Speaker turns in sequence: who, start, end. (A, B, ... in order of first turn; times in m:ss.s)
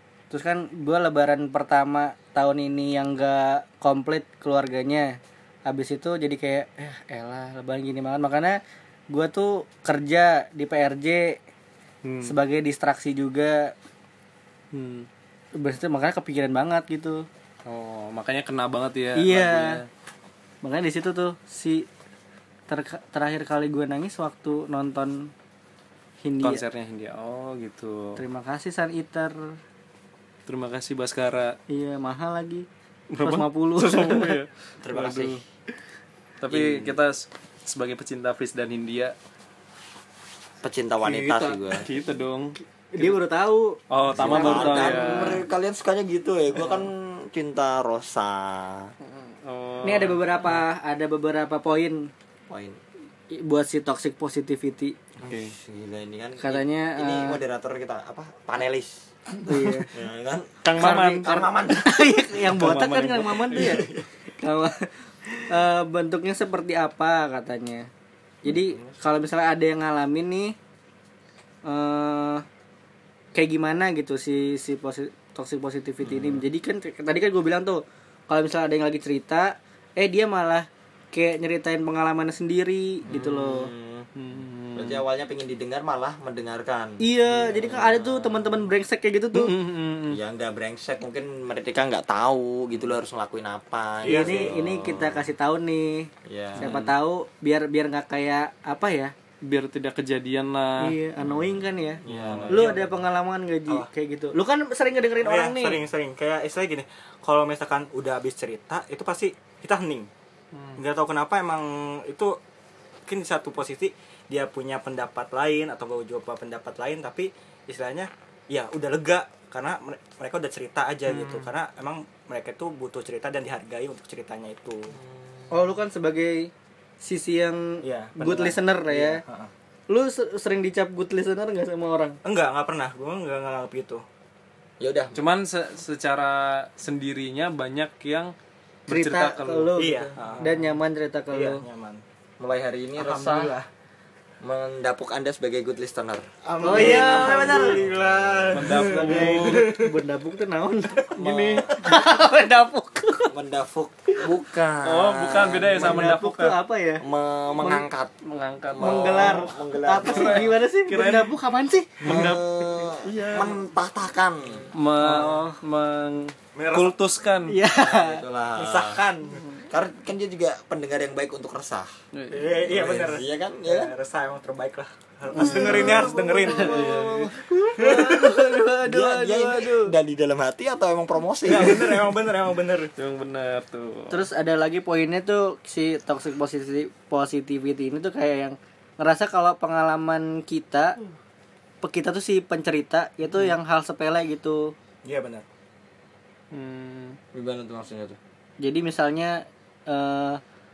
0:00.3-0:08.6 A
0:09.1-0:11.4 A
0:12.0-0:12.3 B
0:12.2-0:13.7 A
0:14.7-0:15.1 B
0:15.6-0:17.3 A
0:17.6-0:19.9 B
0:19.2-0:19.8 A
0:20.6-0:21.9 A
0:22.7-0:25.3 A
0:26.2-0:26.6 A
0:26.4-0:28.2 B
0:28.2-0:29.6 A
0:30.5-0:31.6 B
0:31.7-0:32.6 A
0:33.1-0:35.4 B
0:33.2-0:34.4 A
0:34.8-0:35.4 C
0:36.4-0:39.1 B
0:36.5-0:37.0 C
0:40.6-0:41.9 C
0:41.0-0:43.2 B
0:42.9-0:45.4 A
0:43.9-0:45.4 B
0:44.1-0:48.9 C
0:49.0-0:50.2 B
0:49.8-0:52.1 A
0:52.5-0:52.8 C
0:53.3-0:55.0 A
0:55.2-0:59.0 C
0:55.2-0:55.5 B
0:56.4-0:57.4 A
0:59.4-0:59.9 A
0:59.9-1:02.1 C
1:00.6-1:01.4 B
1:00.7-1:03.8 A
1:02.4-1:03.9 B
1:03.6-1:04.0 C
1:04.4-1:07.9 A
1:08.4-1:10.6 A
1:08.5-1:08.9 C
1:11.6-1:12.4 A
1:13.3-1:23.7 A
1:16.0-1:16.4 C
1:23.0-1:24.1 C
1:24.1-1:25.0 B
1:24.7-1:28.7 C
1:27.0-1:29.5 A
1:29.3-1:30.2 B
1:30.1-1:35.3 C
1:34.0-1:34.5 D
1:34.0-1:39.1 A
1:36.2-1:36.9 C
1:36.6-1:36.8 B
1:39.4-1:40.9 B
1:40.8-1:45.8 A
1:42.0-1:42.9 C
1:42.1-1:42.6 B
1:42.5-1:42.9 D
1:45.2-1:50.1 D
1:50.5-1:50.8 B
1:50.8-1:52.4 D
1:53.0-2:05.0 D
2:01.1-2:01.5 B
2:04.9-2:05.6 C
2:05.5-2:09.2 A
2:07.8-2:09.5 D
2:09.9-2:12.2 A
2:12.2-2:14.0 D
2:14.8-2:15.2 C
2:15.1-2:18.3 B
2:18.9-2:19.7 B
2:18.9-2:21.6 A
2:19.8-2:20.7 D
2:21.3-2:22.0 D
2:22.4-2:23.5 C
2:23.0-2:23.7 D
2:24.4-2:28.9 C
2:26.6-2:29.9 D
2:26.6-2:27.8 A
2:28.5-2:29.7 B
2:29.0-2:31.1 A
2:31.2-2:31.9 C
2:31.2-2:31.7 B
2:31.7-2:33.3 A
2:33.3-2:36.1 C
2:34.8-2:36.6 B
2:35.7-2:37.0 A
2:37.0-2:38.1 C
2:38.2-2:39.5 B
2:38.7-2:40.5 C
2:38.8-2:42.0 A
2:40.0-2:41.3 B
2:42.0-2:44.7 C
2:42.0-2:43.6 B
2:44.7-2:47.5 B
2:45.0-2:45.6 A
2:46.5-2:47.0 D
2:47.5-2:48.2 A
2:47.7-2:49.0 C
2:48.6-2:49.4 D
2:49.7-2:51.9 C
2:52.1-2:52.5 B
2:52.3-2:57.0 D
2:52.7-2:53.9 C
2:55.4-2:56.8 A
2:55.4-2:57.3 B
2:55.4-2:57.4 C
2:57.6-2:59.9 A
2:57.8-2:58.4 D
2:58.8-3:02.1 C
3:01.4-3:02.9 D
3:03.0-3:04.2 B
3:04.1-3:11.0 A
3:11.8-3:14.7 A
3:15.0-3:15.4 D
3:16.5-3:17.2 B
3:17.3-3:18.2 C
3:18.6-3:20.4 A